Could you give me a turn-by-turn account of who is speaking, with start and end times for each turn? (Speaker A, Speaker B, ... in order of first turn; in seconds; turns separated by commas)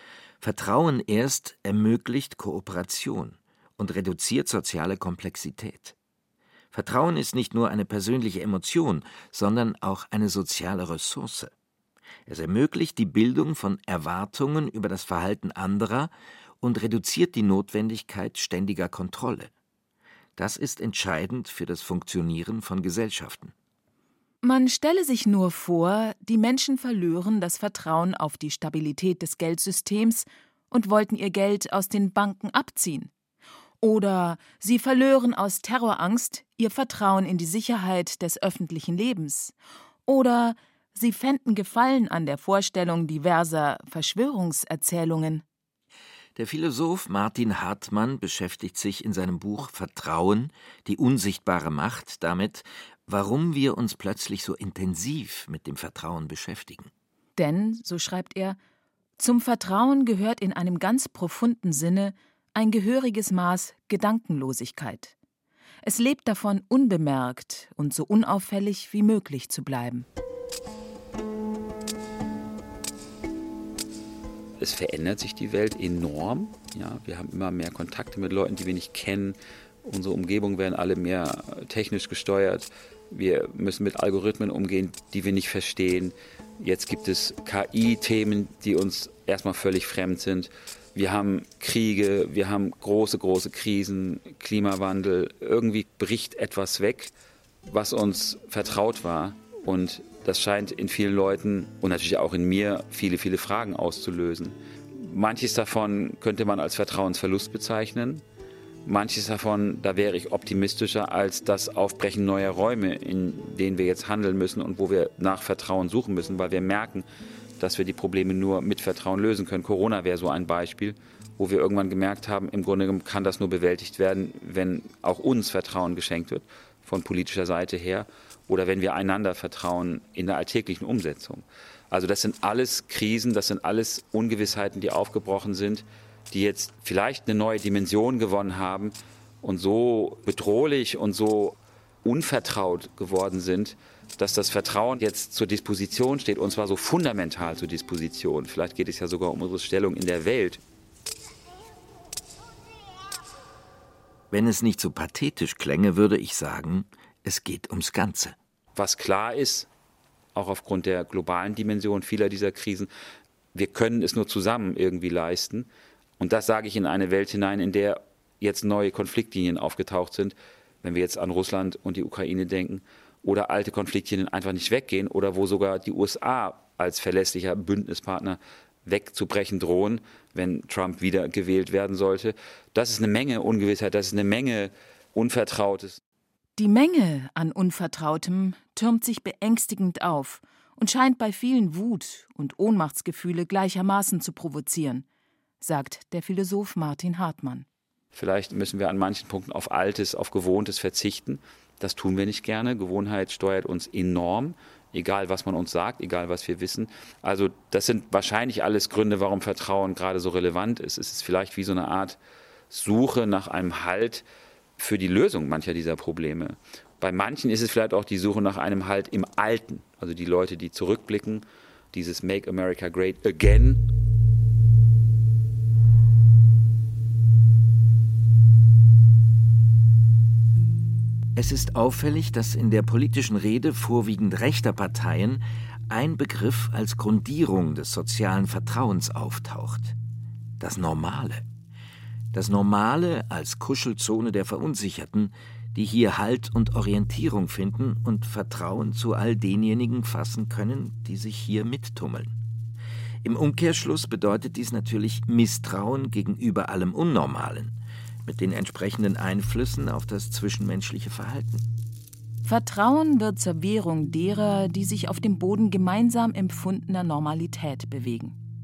Speaker A: 0.4-6.0, Speaker A: 6.7-11.5, Speaker A: 12.3-19.5, Speaker A: 20.4-23.5, Speaker B: 24.4-33.1, Speaker B: 33.8-39.5, Speaker B: 40.1-45.4, Speaker A: 46.4-56.9, Speaker B: 57.4-58.6, Speaker B: 59.2-65.2, Speaker B: 65.8-70.1, Speaker C: 74.6-97.1, Speaker C: 97.7-108.2, Speaker C: 108.8-117.1, Speaker C: 117.6-150.6, Speaker A: 154.3-158.4, Speaker C: 158.8-159.7, Speaker C: 160.3-162.9, Speaker C: 163.5-165.7, Speaker C: 166.2-186.0, Speaker B: 186.6-195.1, Speaker B: 195.6-197.7, Speaker C: 198.1-212.2, Speaker C: 212.7-214.2, Speaker C: 214.8-223.8, Speaker A: 231.3-240.0, Speaker A: 240.6-241.5, Speaker A: 242.3-252.4, Speaker A: 253.2-261.7, Speaker B: 262.4-268.4